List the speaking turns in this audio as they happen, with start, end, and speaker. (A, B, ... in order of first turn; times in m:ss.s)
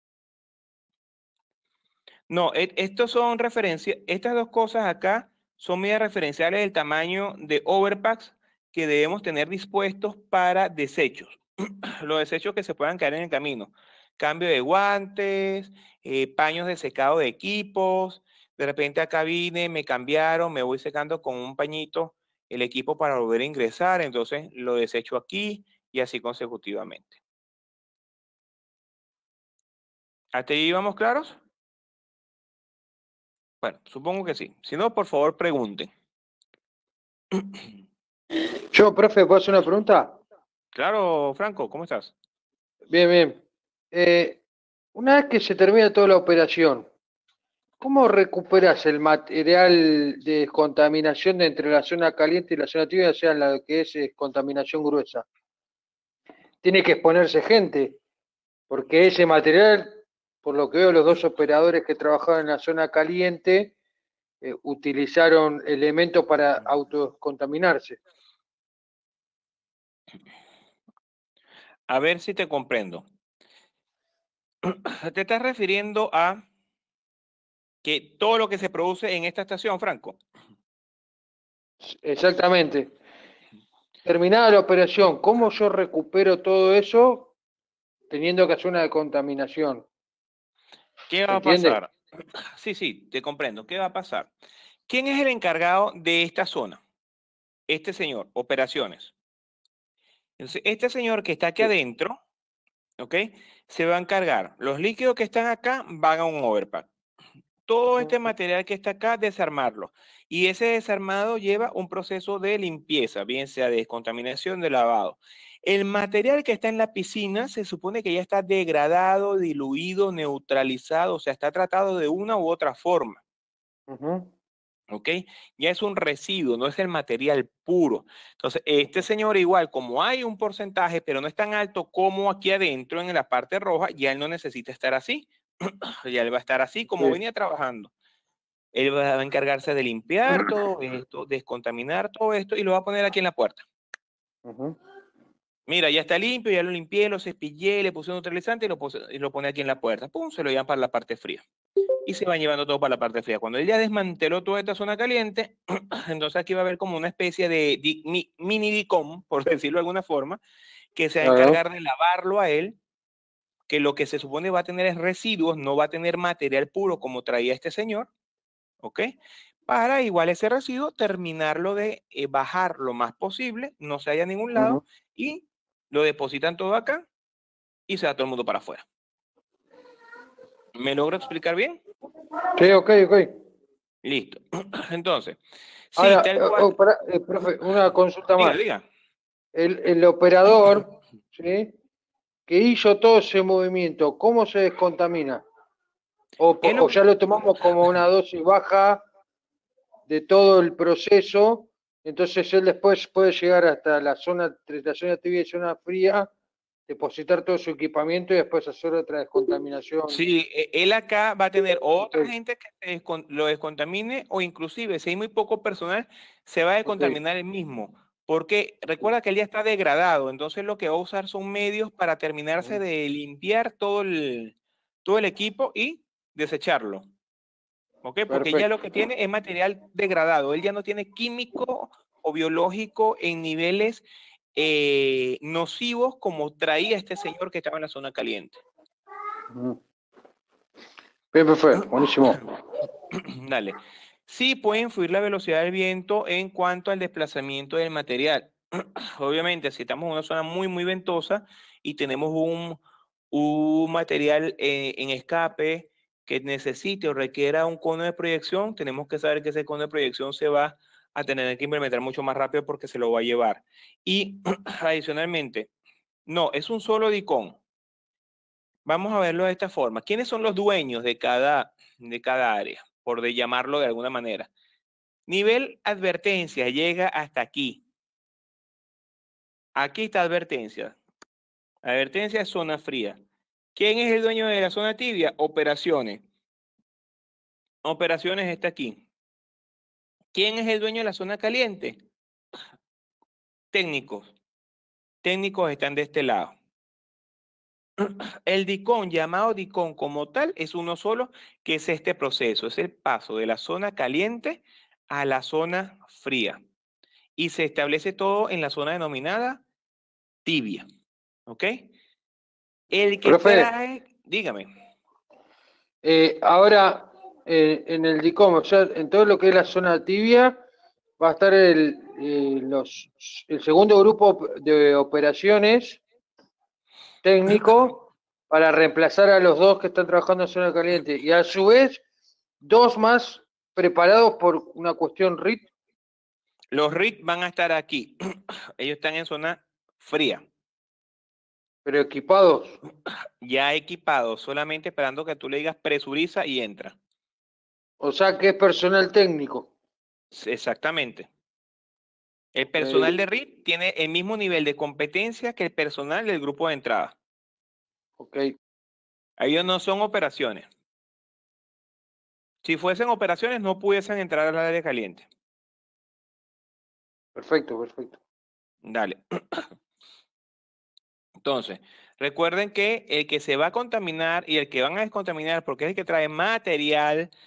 0:02.3-0:11.4 A
0:12.0-0:27.2 A
0:30.3-0:31.4 A
0:33.6-0:35.9 A
0:38.7-0:40.2 B
0:40.7-0:42.1 A
0:42.9-0:43.4 B
0:43.9-0:44.4 B
0:44.9-0:46.8 B
0:47.8-0:55.2 B
0:56.6-0:58.0 B
0:58.7-1:03.7 B
1:04.4-1:08.0 B
1:11.9-1:13.0 A
1:14.6-1:16.4 A
1:17.8-1:20.2 A
1:21.8-1:22.9 B
1:24.0-1:27.3 B
1:28.1-1:29.8 B
1:31.1-1:31.9 A
1:31.3-1:31.8 B
1:32.6-1:34.3 A
1:34.9-1:36.8 A
1:37.7-1:39.1 A
1:40.4-1:42.2 A
1:43.0-1:46.9 A
1:47.7-2:03.2 A
2:03.9-2:04.3 B
2:04.9-2:17.9 A
2:18.7-2:23.6 A
2:24.4-2:24.8 B
2:25.7-2:31.4 A
2:32.0-2:40.4 A
2:40.9-2:42.8 A
2:41.2-2:41.6 B
2:43.7-2:48.1 A
2:48.8-2:49.1 A
2:49.7-2:57.0 A
2:54.6-2:54.8 B
2:57.9-2:58.8 A
3:00.8-3:01.8 A
3:02.6-3:03.3 B
3:04.0-3:05.4 A
3:05.9-3:06.7 A
3:06.0-3:08.6 B
3:08.4-3:08.8 A
3:09.5-3:11.7 B
3:12.5-3:15.4 B
3:16.4-3:19.0 B
3:16.6-3:17.0 A
3:20.1-3:26.3 B
3:26.9-3:30.2 B
3:30.1-3:47.0 A
3:36.9-3:37.2 B
3:48.0-3:54.0 A
3:48.3-3:48.7 B
3:54.6-3:58.6 A
3:59.5-3:59.8 B
4:01.3-4:02.5 B
4:03.3-4:12.8 A
4:13.3-4:25.7 A
4:26.3-4:27.6 A
4:28.8-4:34.5 A
4:35.3-4:37.8 A
4:39.8-4:41.0 A
4:41.8-4:43.2 A
4:43.7-4:46.2 A
4:47.8-4:49.0 A
4:50.3-4:52.0 A
4:53.7-4:54.3 A
4:55.2-4:56.5 A
4:58.0-5:06.6 A
5:07.4-5:09.6 A
5:10.4-5:10.8 A
5:11.5-5:11.9 A
5:12.9-5:14.7 A
5:13.2-5:13.7 B
5:16.0-5:20.6 B
5:21.2-5:26.0 B
5:27.2-5:32.0 B
5:32.6-5:35.7 B
5:36.7-5:38.1 A
5:38.8-5:40.4 A
5:41.8-5:42.8 B
5:43.4-5:47.0 A
5:48.0-5:49.7 B
5:50.3-5:51.3 A
5:52.5-5:57.1 A
5:52.8-5:53.1 B
5:58.2-5:58.5 B
5:59.4-6:00.6 A
6:02.6-6:05.2 A
6:07.4-6:08.2 B
6:08.8-6:09.6 A
6:11.4-6:17.3 A